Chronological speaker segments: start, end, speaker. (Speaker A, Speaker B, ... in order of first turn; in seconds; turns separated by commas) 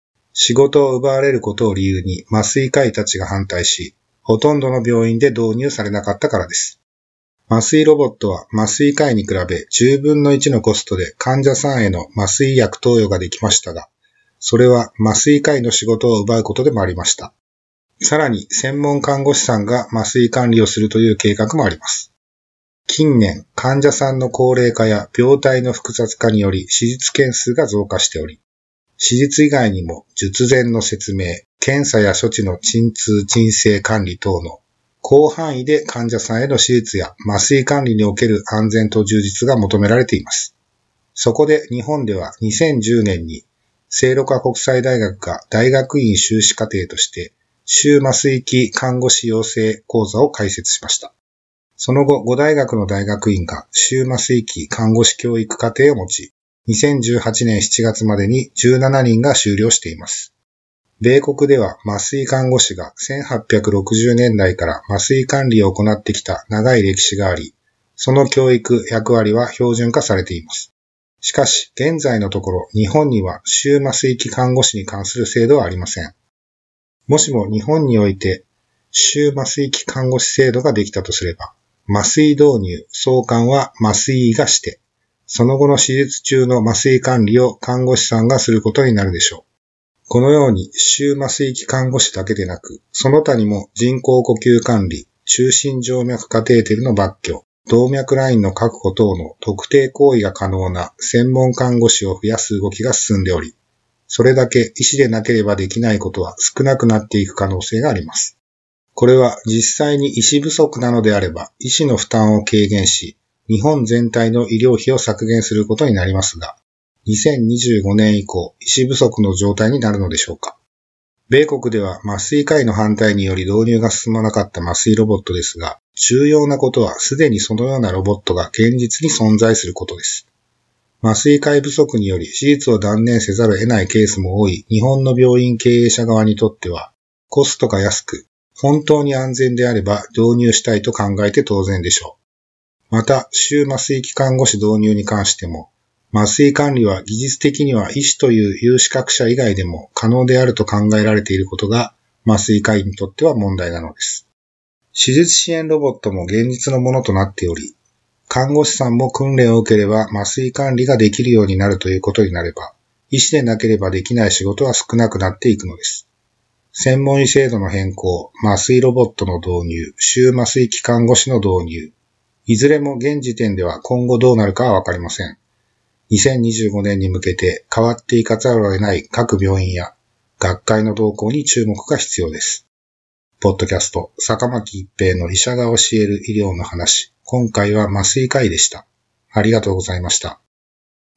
Speaker A: 0.3-6.8, Speaker A: 7.5-17.3, Speaker A: 18.0-22.1, Speaker A: 22.9-28.4, Speaker A: 29.0-40.5, Speaker A: 41.1-51.1, Speaker A: 51.8-60.3, Speaker A: 61.0-76.1, Speaker A: 77.1-89.4, Speaker A: 90.1-103.5, Speaker A: 104.1-108.4, Speaker A: 108.9-120.6, Speaker A: 121.3-130.3, Speaker A: 131.0-142.2, Speaker A: 142.9-154.3, Speaker A: 154.9-157.8, Speaker A: 158.3-166.1, Speaker A: 166.7-171.9, Speaker A: 172.4-175.4, Speaker A: 176.1-182.7, Speaker A: 183.4-190.4